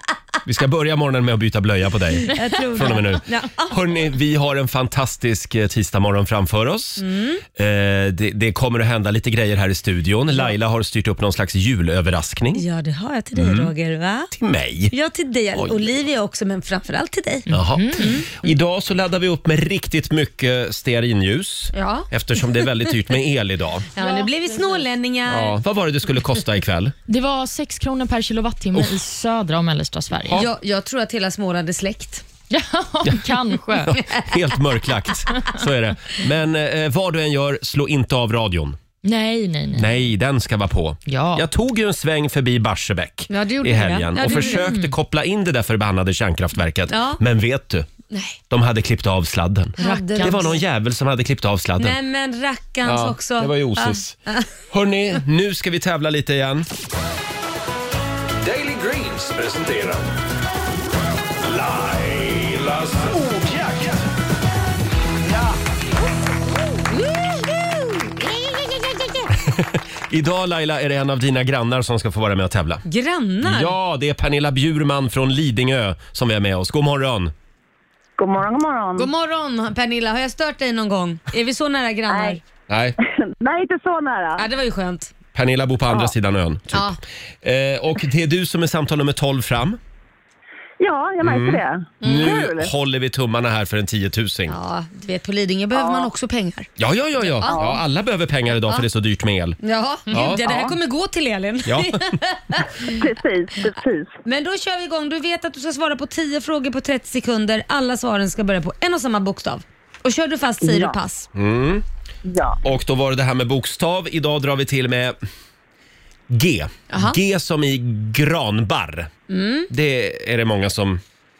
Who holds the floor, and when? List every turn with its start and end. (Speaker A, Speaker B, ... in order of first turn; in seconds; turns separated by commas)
Speaker A: 0.4-12.6, Speaker B: 2.3-3.7, Speaker B: 7.0-7.4, Speaker B: 12.5-14.3, Speaker A: 13.3-13.7, Speaker A: 14.3-14.9, Speaker B: 14.9-18.5, Speaker A: 15.5-16.0, Speaker C: 17.5-18.1, Speaker A: 17.5-23.9, Speaker B: 21.7-22.9, Speaker B: 23.9-25.6, Speaker C: 24.0-24.8, Speaker A: 25.3-26.9, Speaker C: 27.1-30.4, Speaker A: 30.2-30.5, Speaker B: 30.3-32.2, Speaker C: 32.5-34.0, Speaker A: 33.7-38.8, Speaker B: 33.9-34.4, Speaker C: 39.0-39.9, Speaker A: 39.7-47.9, Speaker C: 41.1-41.5, Speaker B: 43.3-44.7, Speaker C: 44.2-44.9, Speaker B: 46.9-47.2, Speaker B: 48.1-48.4, Speaker A: 48.5-52.0, Speaker C: 49.8-50.5, Speaker B: 49.8-50.6, Speaker B: 51.8-54.5, Speaker A: 52.8-54.2, Speaker A: 54.7-56.7, Speaker D: 58.4-60.1, Speaker D: 61.4-64.0, Speaker A: 69.3-72.8, Speaker B: 72.9-73.7, Speaker A: 73.4-77.3, Speaker E: 78.2-79.1, Speaker B: 79.0-82.4, Speaker E: 82.1-82.4, Speaker A: 82.7-83.0, Speaker E: 83.4-84.5, Speaker B: 84.4-85.1, Speaker A: 85.3-89.8, Speaker B: 86.7-87.0, Speaker E: 90.8-92.7, Speaker A: 91.2-94.6, Speaker B: 92.0-92.3, Speaker B: 94.5-96.7, Speaker E: 95.7-96.1, Speaker A: 96.8-99.6, Speaker B: 97.2-97.8, Speaker E: 97.5-97.7, Speaker B: 99.6-103.0, Speaker A: 100.1-100.6, Speaker E: 100.4-100.7, Speaker A: 101.7-102.1, Speaker E: 102.8-104.1, Speaker B: 104.2-111.3, Speaker E: 110.6-111.0, Speaker A: 111.3-111.8, Speaker E: 112.2-112.6, Speaker A: 112.6-115.2, Speaker A: 116.3-119.1, Speaker B: 116.9-117.2, Speaker B: 119.3-119.7, Speaker A: 119.7-121.0